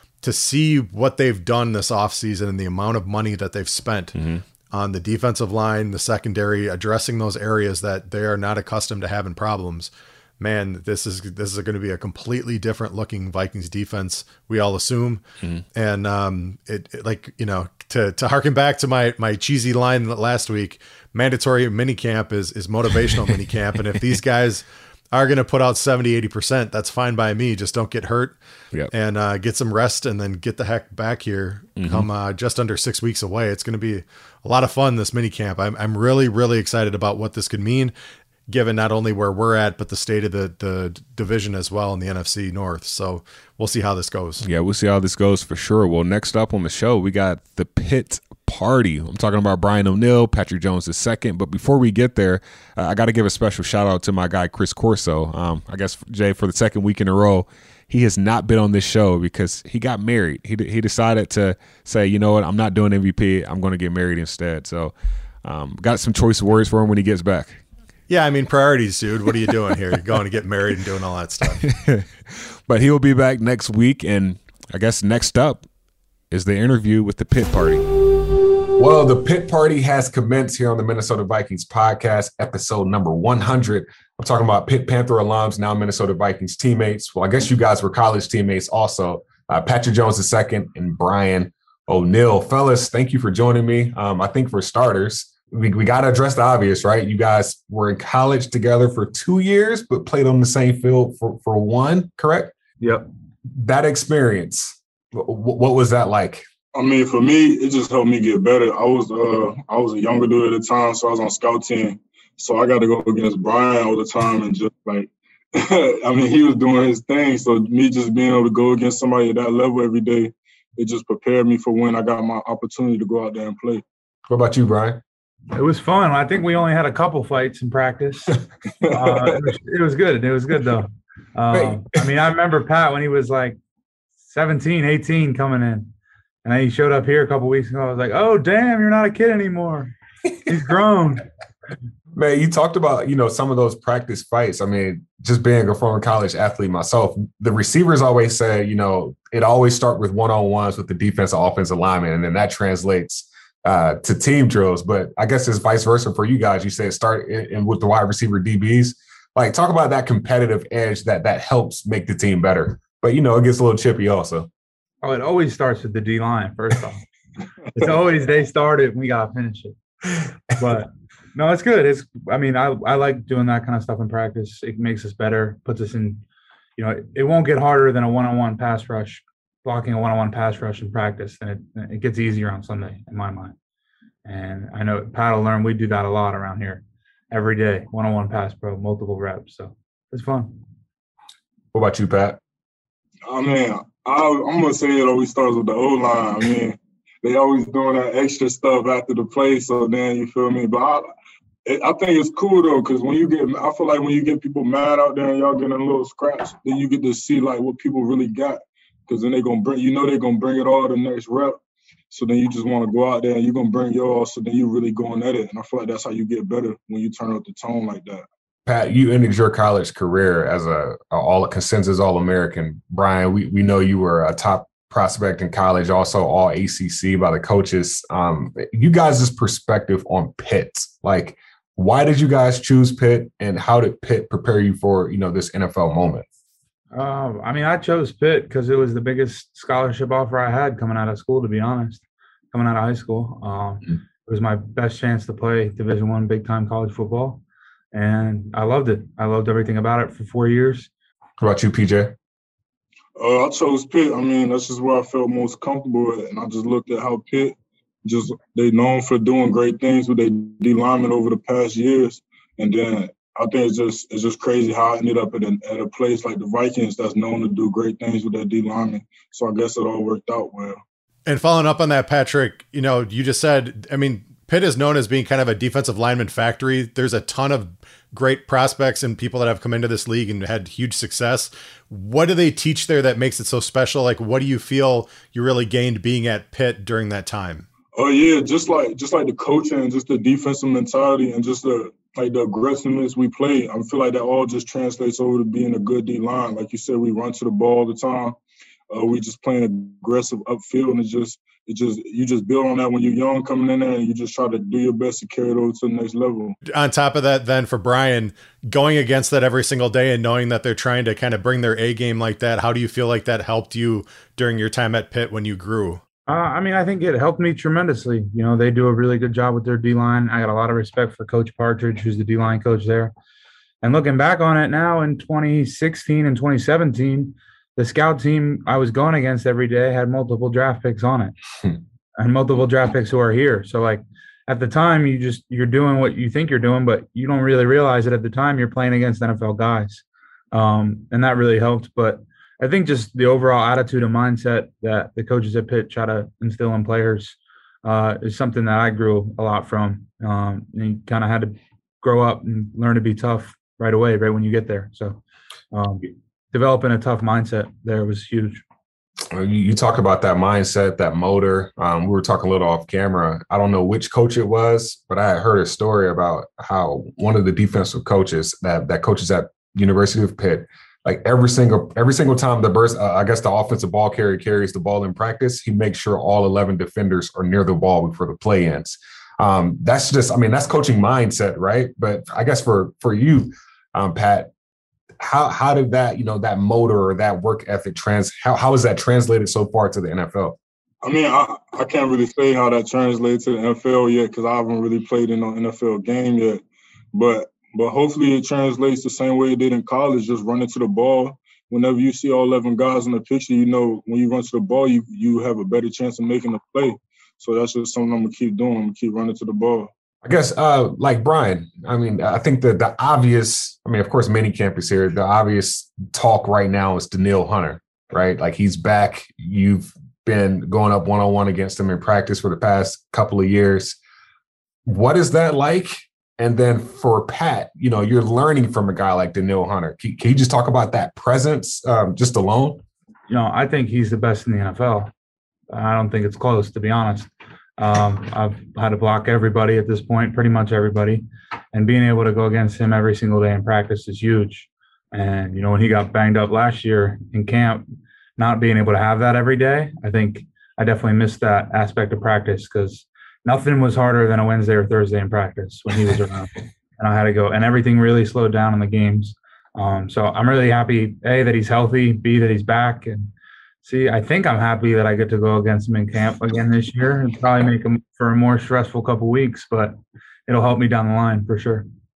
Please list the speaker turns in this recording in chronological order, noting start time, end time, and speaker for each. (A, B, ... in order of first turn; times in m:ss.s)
0:00.2-0:04.2 A
0:04.2-0:04.4 B
0:04.7-0:28.4 A
0:28.9-0:37.9 A
0:31.8-0:32.1 B
0:38.5-0:44.4 A
0:44.4-1:07.6 B
1:08.1-1:11.6 A
1:11.6-1:15.7 B
1:16.3-1:17.8 B
1:18.8-1:42.5 B
1:42.8-1:43.1 C
1:43.5-1:46.4 B
1:46.7-2:03.8 D
2:04.3-2:05.0 B
2:05.5-2:13.6 C
2:11.5-2:11.8 B
2:14.2-2:15.9 C
2:16.4-2:19.9 C
2:20.4-2:21.3 C
2:22.2-2:44.5 B
2:45.0-2:47.0 C
2:47.7-2:49.8 C
2:50.5-2:56.2 C
2:56.8-3:03.5 C
3:04.2-3:10.6 C
3:11.7-3:12.4 B
3:13.3-3:21.1 D
3:21.6-3:31.6 D
3:32.1-3:38.3 D
3:38.7-3:56.3 B
3:56.9-4:10.9 C
4:11.4-4:12.2 B
4:13.2-4:30.8 D
4:31.3-4:47.7 A
4:48.0-4:58.4 D
4:58.9-5:06.6 D
5:06.6-5:16.0 A
5:16.3-5:23.1 C
5:23.8-5:31.4 C
5:32.2-5:55.2 C
5:55.7-5:58.6 C
5:59.3-6:24.5 B
6:25.2-6:30.6 B
6:31.0-6:49.9 D
6:50.2-7:04.0 B
7:04.9-7:12.8 B
7:13.3-7:15.1 C
7:15.7-7:27.8 C
7:28.4-7:43.3 C
7:43.8-7:50.0 C
7:50.5-7:51.9 C